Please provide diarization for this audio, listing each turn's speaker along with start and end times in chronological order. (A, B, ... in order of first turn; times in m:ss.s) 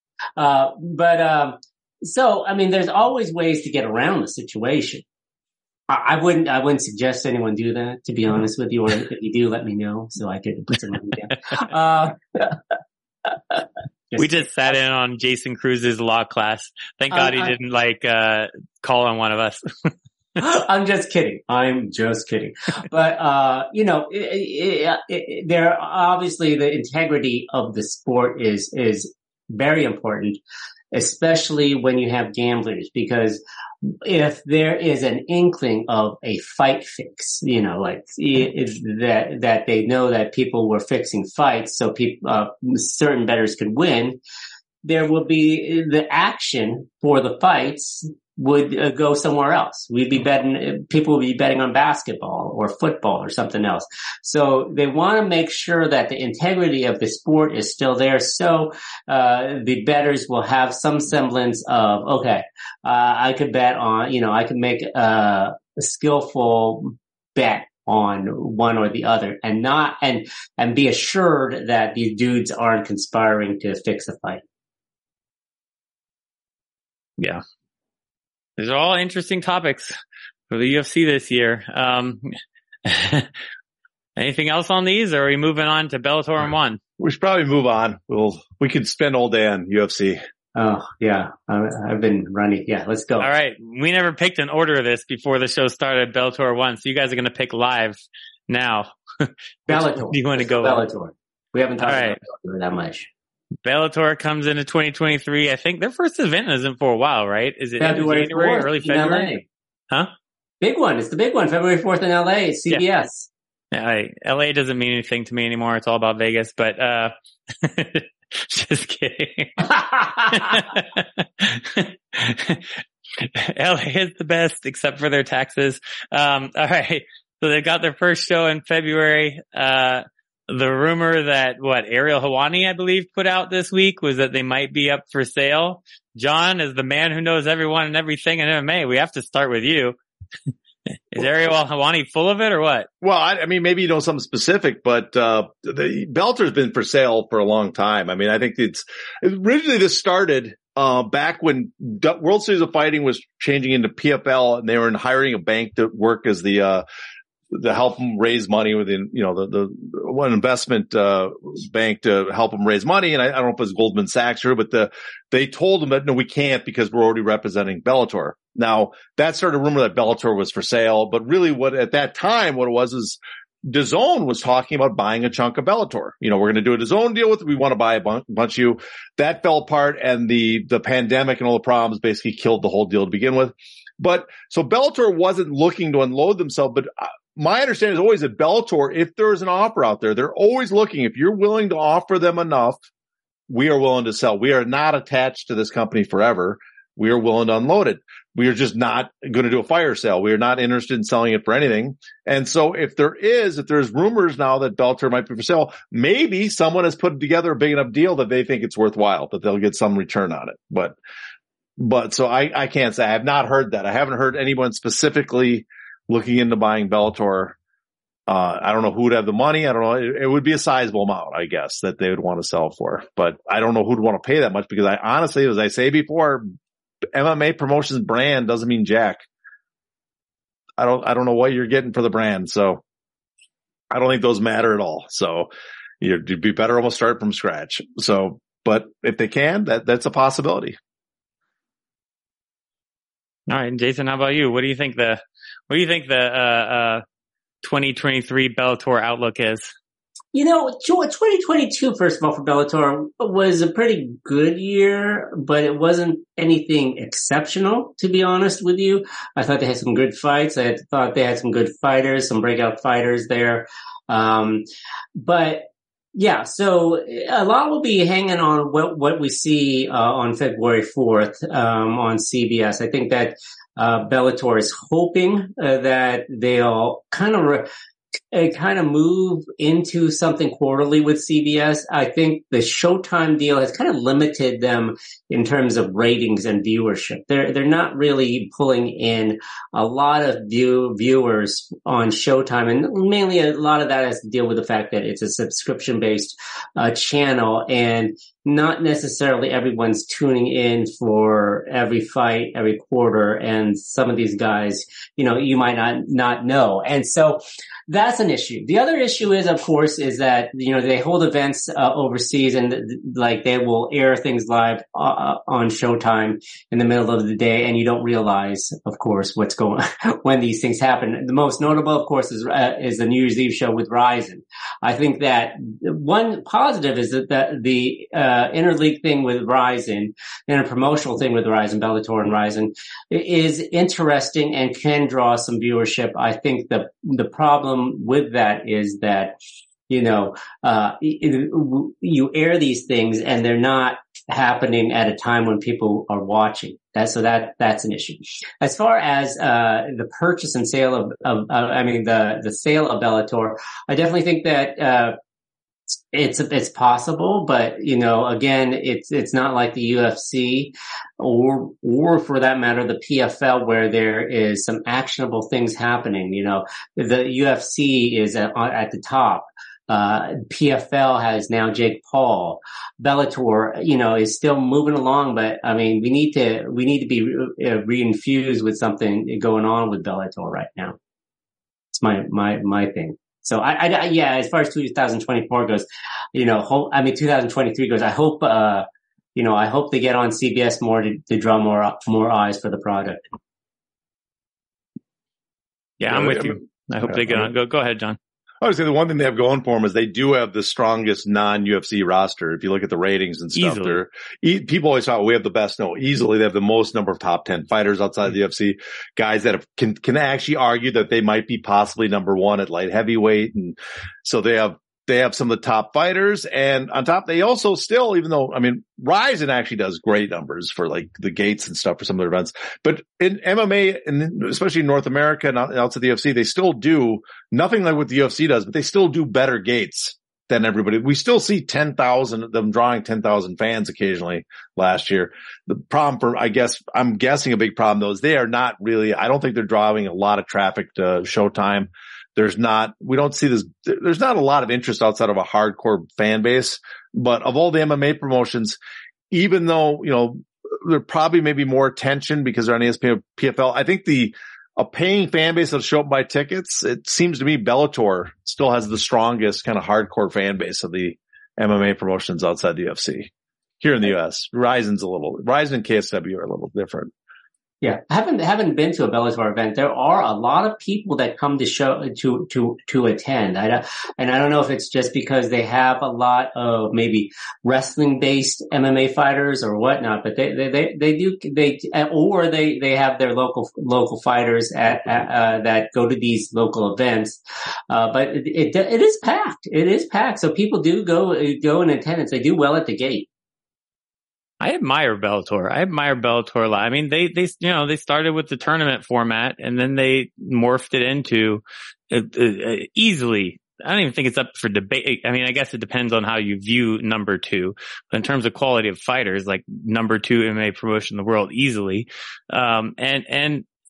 0:00.4-0:05.0 A
0:05.9-0:12.6 A
0:13.3-0:14.5 A
0:14.2-0:19.9 B
0:17.1-0:17.5 A
0:20.4-0:30.4 A
0:30.9-0:44.2 A
0:44.8-1:14.4 A
1:18.6-1:19.9 B
1:20.5-1:22.3 B
1:22.8-1:23.3 B
1:24.2-1:26.8 B
1:27.0-1:30.2 C
1:30.6-1:33.3 A
1:33.2-1:40.8 B
1:39.7-1:43.1 A
1:41.8-1:42.2 B
1:43.6-1:49.3 B
1:47.8-1:49.4 A
1:50.6-1:53.3 A
1:53.7-2:20.0 B
2:21.1-2:22.9 B
2:23.0-2:36.8 C
2:37.5-3:12.8 C
3:13.5-3:30.9 C
3:31.8-3:37.6 C
3:38.3-3:46.4 C
3:47.1-3:49.3 C
3:50.8-3:52.8 C
3:53.9-3:55.5 C
3:56.0-4:00.8 C
4:03.5-4:07.0 B
4:07.6-4:09.7 B
4:10.3-4:37.7 A
4:38.3-5:39.4 A
5:39.9-5:55.2 A
5:56.1-6:21.0 A
6:21.9-6:33.2 A
6:36.0-6:38.2 B
6:36.1-6:37.5 C
6:38.6-7:28.8 C
6:43.6-6:44.0 B
7:29.3-7:43.3 C
7:43.8-7:47.1 C
7:47.8-8:07.4 A
8:07.9-8:13.3 A
8:14.6-8:33.6 B